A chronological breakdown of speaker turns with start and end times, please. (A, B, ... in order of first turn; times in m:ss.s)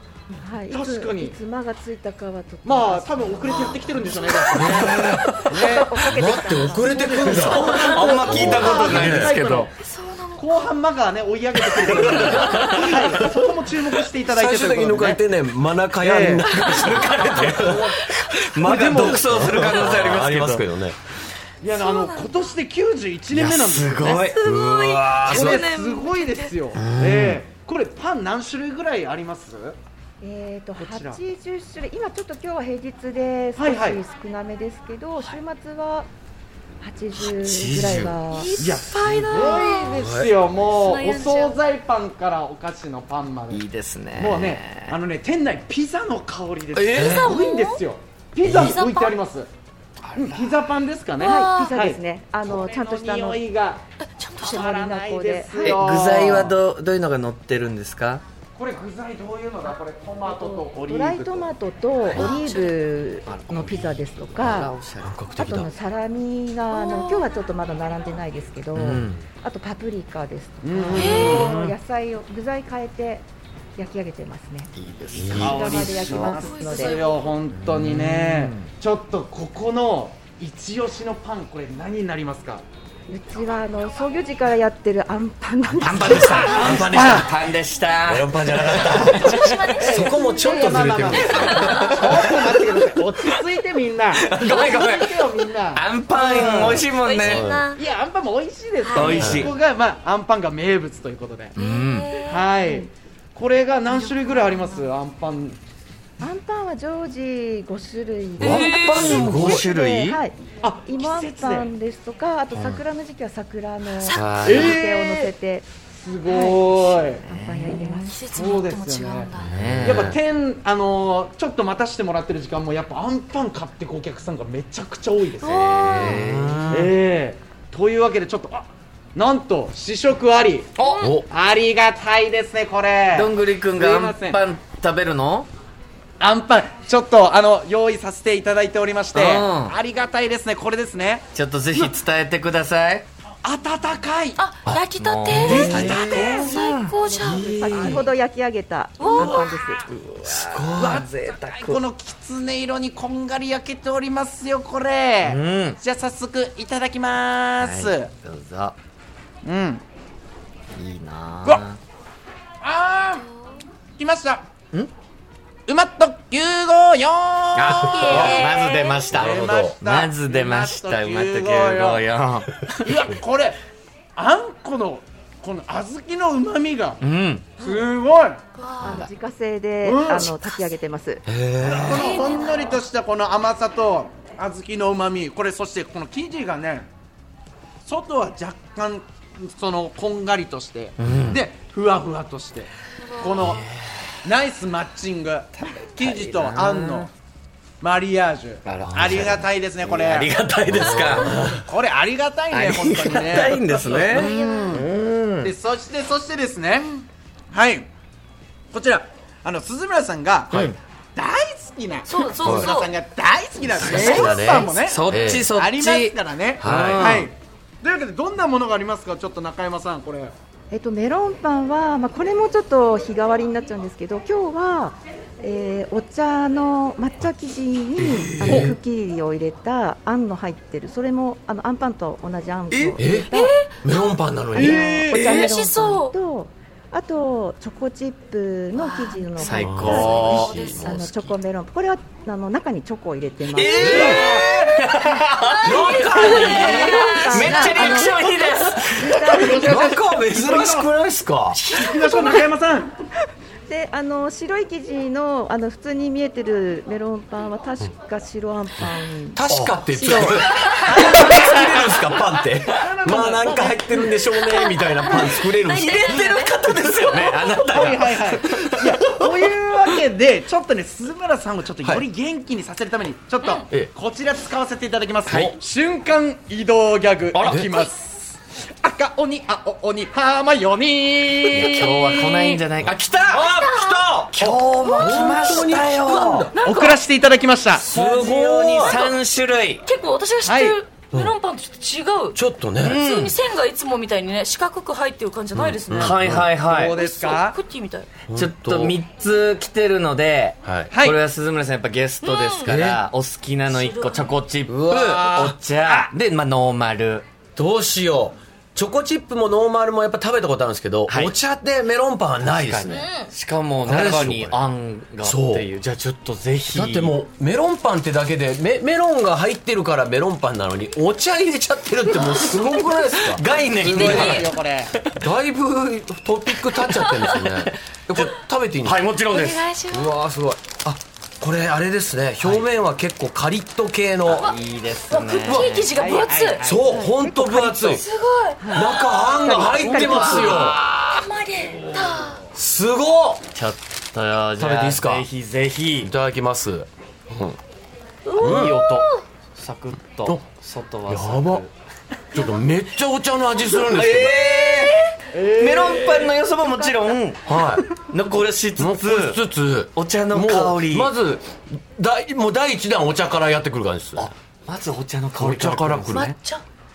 0:00.3-0:04.5 A
0:00.7-0:01.4 B
0:02.6-0:06.0 B
0:03.5-0:04.6 C
0:04.5-0:05.3 D
0:05.1-0:05.5 E
0:05.4-0:07.5 A
0:06.0-0:09.3 D
0:06.8-0:09.7 B
0:07.3-0:09.7 E
0:07.7-0:10.5 C
0:10.4-0:15.2 B
0:11.7-0:12.9 E
0:14.3-0:21.0 D
0:16.0-0:16.5 B
0:16.5-0:17.1 C
0:16.8-0:20.6 E
0:17.3-0:17.7 B
0:17.7-0:18.3 C
0:18.6-0:19.6 B
0:21.6-0:24.3 B
0:21.6-0:22.4 C
0:23.3-0:24.4 E
0:24.3-0:26.7 C
0:24.4-0:25.6 D
0:25.2-0:29.8 B
0:26.7-0:27.4 E
0:30.2-0:36.1 A
0:30.8-0:31.2 B
0:33.6-0:34.0 B
0:36.8-0:38.6 A
0:37.2-0:38.2 E
0:38.3-0:40.1 C
0:38.6-0:43.6 B
0:39.1-0:40.3 D
0:40.6-0:41.6 C
0:43.5-0:45.0 E
0:44.2-0:49.5 B
0:46.7-0:47.2 E
0:47.0-0:47.3 D
0:47.1-0:47.8 C
0:48.4-0:48.8 D
0:48.5-0:49.2 C
0:50.0-0:50.6 E
0:50.1-0:53.8 B
0:51.2-0:51.8 C
0:51.2-0:53.4 A
0:54.0-0:54.8 C
0:54.4-0:55.8 A
0:54.4-0:56.6 B
0:55.6-0:58.2 E
0:58.5-1:01.5 B
1:00.3-1:00.6 C
1:00.8-1:04.7 A
1:02.1-1:02.7 C
1:03.2-1:05.1 E
1:05.0-1:05.7 D
1:05.4-1:13.2 A
1:06.7-1:07.3 C
1:08.7-1:09.2 E
1:10.6-1:11.5 B
1:10.9-1:11.5 C
1:11.4-1:11.7 E
1:13.8-1:17.0 A
1:14.7-1:16.3 E
1:15.1-1:15.7 D
1:15.3-1:22.6 B
1:16.3-1:17.4 C
1:17.5-1:18.7 E
1:23.1-1:26.8 A
1:25.8-1:29.9 E
1:25.9-1:27.3 B
1:26.0-1:27.4 D
1:28.1-1:31.8 D
1:28.7-1:32.3 C
1:29.8-1:36.9 B
1:30.2-1:30.6 A
1:30.6-1:32.6 E
1:34.1-1:37.5 E
1:34.5-1:34.8 C
1:36.4-1:37.6 D
1:36.8-1:37.8 C
1:37.7-1:41.5 B
1:38.8-1:39.4 C
1:39.0-1:39.5 E
1:39.1-1:39.5 D
1:41.5-1:42.5 C
1:41.6-1:42.1 E
1:42.2-1:45.6 B
1:43.8-1:44.9 C
1:46.2-1:55.7 A
1:48.4-1:50.2 E
1:48.4-1:49.1 C
1:48.4-1:49.6 D
1:50.6-1:51.7 B
1:52.5-1:52.8 E
1:54.0-1:55.3 C
1:54.2-1:54.7 E
1:54.4-1:54.8 B
1:55.9-1:57.2 B
1:56.2-1:58.2 A
1:57.3-1:57.9 E
1:57.8-1:59.5 C
1:58.3-2:06.2 B
1:59.4-2:00.1 D
1:59.4-2:00.2 E
2:05.4-2:06.2 C
2:05.4-2:06.7 E
2:05.8-2:06.9 D
2:06.7-2:10.7 B
2:10.8-2:11.1 E
2:11.0-2:11.2 D
2:11.3-2:14.4 B
2:13.1-2:15.5 E
2:16.2-2:22.0 B
2:19.1-2:19.8 E
2:21.3-2:23.0 E
2:23.4-2:24.4 B
2:24.4-2:27.5 C
2:25.0-2:27.9 E
2:25.4-2:26.5 B
2:25.5-2:25.9 D
2:25.6-2:26.5 A
2:27.2-2:29.8 A
2:27.7-2:28.0 B
2:29.0-2:29.5 C
2:29.1-2:29.6 B
2:29.8-2:31.8 E
2:30.2-2:31.0 D
2:30.8-2:38.1 B
2:35.2-2:35.8 E
2:37.6-2:38.8 E
2:39.4-2:39.8 B
2:40.7-2:41.8 E
2:42.6-2:43.3 B
2:44.0-2:44.4 B
2:45.7-2:52.0 B
2:47.5-2:53.1 E
2:47.8-2:49.1 C
2:48.0-2:48.4 D
2:49.1-2:49.7 D
2:52.8-2:53.6 B
2:54.2-2:57.0 B
2:57.0-2:57.6 E
2:57.6-2:58.4 B
2:58.6-2:59.0 C
2:58.8-3:01.2 A
2:59.8-3:00.4 B
3:01.2-3:02.2 D
3:01.6-3:06.9 B
3:01.9-3:02.8 C
3:07.8-3:13.6 B
3:11.0-3:11.4 E
3:13.4-3:13.9 E
3:14.2-3:17.1 B
3:15.6-3:17.1 E
3:17.8-3:20.3 B
3:18.6-3:21.6 E
3:20.9-3:24.8 B
3:21.0-3:21.6 D
3:22.5-3:25.5 E
3:23.6-3:24.7 C
3:25.4-3:27.9 B
3:28.7-3:40.3 B
3:32.0-3:32.9 C
3:32.4-3:32.7 D
3:33.6-3:35.5 D
3:33.8-3:37.3 E
3:34.0-3:34.6 C
3:36.6-3:37.2 D
3:40.7-3:53.5 A
3:48.4-3:48.8 D
3:48.5-3:48.7 B
3:53.0-3:53.3 D
3:53.3-3:53.7 C
3:53.8-3:55.0 D
3:54.5-4:04.2 A
3:54.6-3:55.2 B
3:55.1-3:56.1 C
3:55.1-3:55.5 E
3:58.7-4:01.0 C
3:59.4-4:00.6 E
3:59.5-4:01.3 D
4:03.5-4:05.7 E
4:03.7-4:04.2 D
4:03.8-4:04.8 B
4:05.6-4:07.9 D
4:05.6-4:07.1 C
4:05.9-4:09.7 A
4:06.4-4:10.5 E
4:07.8-4:08.3 C
4:09.3-4:10.9 B
4:09.3-4:11.6 D
4:11.6-4:11.8 E
4:11.7-4:12.9 B
4:13.7-4:20.4 A
4:19.4-4:26.3 D
4:19.5-4:20.2 E
4:20.6-4:20.9 C
4:20.9-4:21.5 B
4:22.7-4:24.1 B
4:24.5-4:27.5 C
4:25.7-4:29.5 E
4:27.6-4:38.2 B
4:33.4-4:33.7 C
4:35.2-4:35.6 E
4:37.3-4:37.9 E
4:38.8-4:43.4 B
4:41.4-4:43.4 E
4:41.6-4:42.0 C
4:43.3-4:46.5 D
4:43.4-4:44.1 C
4:44.3-4:46.5 E
4:44.7-4:45.8 C
4:46.5-4:47.0 C
4:46.6-4:48.5 B
4:47.9-4:49.0 D
4:47.9-4:49.8 E
4:48.3-4:49.2 C
4:49.8-4:52.4 C
4:50.4-4:50.8 B
4:52.3-4:53.0 D
4:52.8-4:53.4 E
4:53.0-4:56.2 C
4:55.5-4:56.5 D
4:56.0-4:57.0 E
4:56.4-4:57.6 B
4:56.9-4:58.1 C
4:58.3-4:59.0 D
4:58.3-5:07.2 E
5:00.6-5:00.9 D
5:00.9-5:01.2 B
5:02.2-5:02.7 C
5:02.6-5:03.0 D
5:03.7-5:04.3 C
5:04.7-5:05.5 D
5:05.2-5:06.1 B
5:07.6-5:13.1 D
5:11.1-5:11.3 E
5:12.4-5:17.2 E
5:12.9-5:13.3 C
5:13.9-5:14.6 D
5:15.2-5:15.6 D
5:16.7-5:24.4 D
5:22.4-5:25.2 E
5:23.7-5:25.0 B
5:23.9-5:24.5 C
5:25.2-5:29.0 D
5:26.7-5:29.7 E
5:29.3-5:30.1 C
5:29.9-5:34.5 D
5:32.4-5:32.7 E
5:34.3-5:35.9 E
5:35.1-5:36.6 C
5:35.4-5:35.7 D
5:35.9-5:36.8 B
5:36.6-5:38.0 D
5:36.8-5:38.0 A
5:37.9-5:39.1 C
5:38.6-5:40.5 A
5:38.7-5:40.8 D
5:39.5-5:41.3 E
5:39.9-5:42.4 C
5:42.5-5:43.4 D
5:43.5-5:46.1 E
5:44.6-5:45.2 D
5:46.0-5:47.6 D
5:48.2-5:49.2 C
5:48.4-5:51.7 E
5:48.4-5:48.8 D
5:51.1-5:51.6 D
5:52.3-5:54.4 D
5:53.8-5:57.4 E
5:55.3-5:56.3 B
5:56.8-5:57.1 A
5:57.4-5:57.8 D
5:58.0-5:59.4 E
5:58.8-6:04.3 D
5:59.9-6:01.1 E
6:04.2-6:06.3 E
6:05.4-6:06.3 D
6:06.1-6:06.6 C